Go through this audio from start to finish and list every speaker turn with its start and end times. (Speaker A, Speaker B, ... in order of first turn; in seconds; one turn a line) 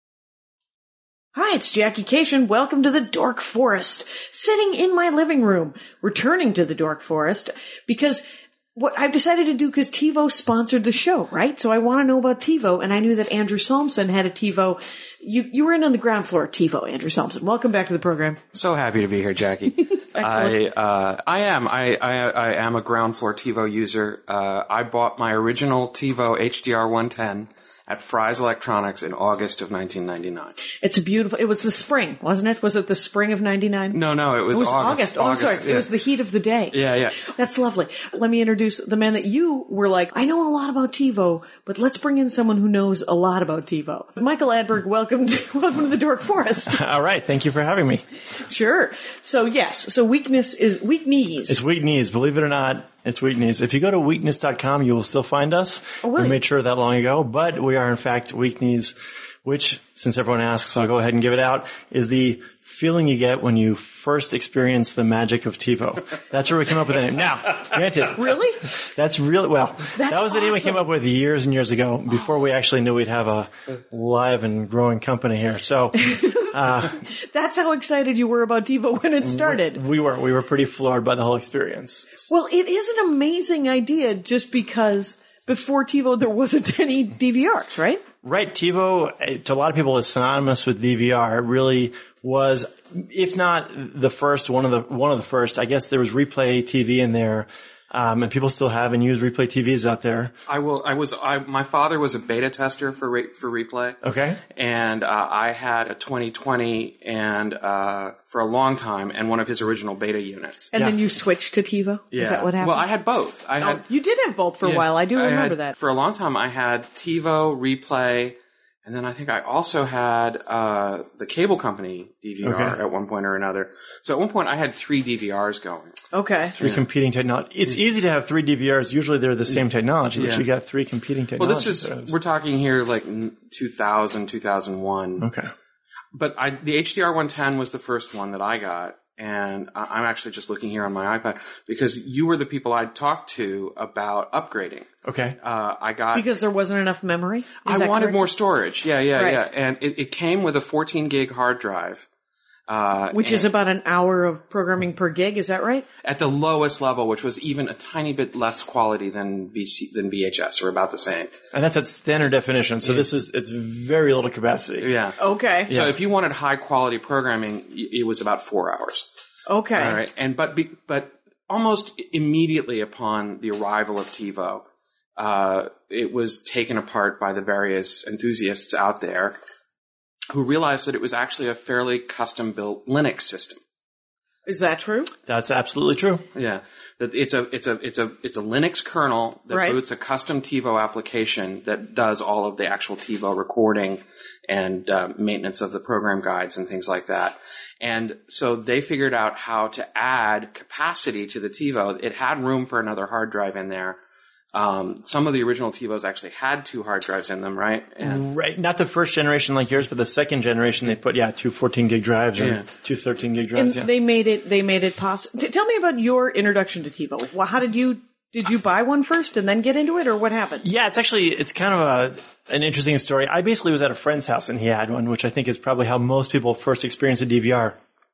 Speaker A: 1.4-8.2
Speaker A: 8.8-18.4
Speaker B: 18.5-30.6
Speaker A: 19.9-20.6
Speaker A: 30.8-34.0
Speaker B: 33.9-35.9
Speaker A: 34.5-46.8
Speaker B: 36.7-37.2
Speaker C: 46.7-48.0
Speaker A: 48.4-51.6
Speaker C: 51.5-77.0
Speaker A: 56.0-56.4
Speaker A: 68.1-68.7
Speaker A: 69.9-70.8
Speaker A: 76.0-79.8
Speaker C: 79.2-82.2
Speaker A: 82.3-88.0
Speaker C: 88.2-100.3
Speaker B: 100.5-104.0
Speaker C: 104.0-104.4
Speaker B: 104.5-110.7
Speaker A: 110.7-112.9
Speaker B: 112.1-113.8
Speaker A: 113.6-115.8
Speaker B: 114.6-126.0
Speaker C: 122.4-122.8
Speaker A: 126.1-126.5
Speaker C: 126.6-132.2
Speaker B: 130.2-130.4
Speaker B: 131.4-135.3
Speaker C: 135.2-135.5
Speaker B: 136.1-144.9
Speaker C: 145.1-145.4
Speaker B: 145.4-146.3
Speaker A: 146.1-148.2
Speaker B: 147.7-152.1
Speaker A: 149.2-149.4
Speaker B: 152.7-153.5
Speaker A: 153.1-155.9
Speaker B: 156.0-161.4
Speaker C: 161.5-164.9
Speaker B: 164.8-169.1
Speaker A: 165.2-165.7
Speaker C: 165.7-165.9
Speaker A: 169.5-170.0
Speaker B: 169.8-174.6
Speaker B: 175.2-179.4
Speaker B: 180.3-183.6
Speaker A: 184.4-185.1
Speaker C: 185.3-186.2
Speaker B: 186.3-204.0
Speaker A: 189.5-189.8
Speaker B: 204.5-208.2
Speaker C: 208.0-213.9
Speaker B: 212.4-212.7
Speaker A: 213.6-220.6
Speaker C: 220.6-227.8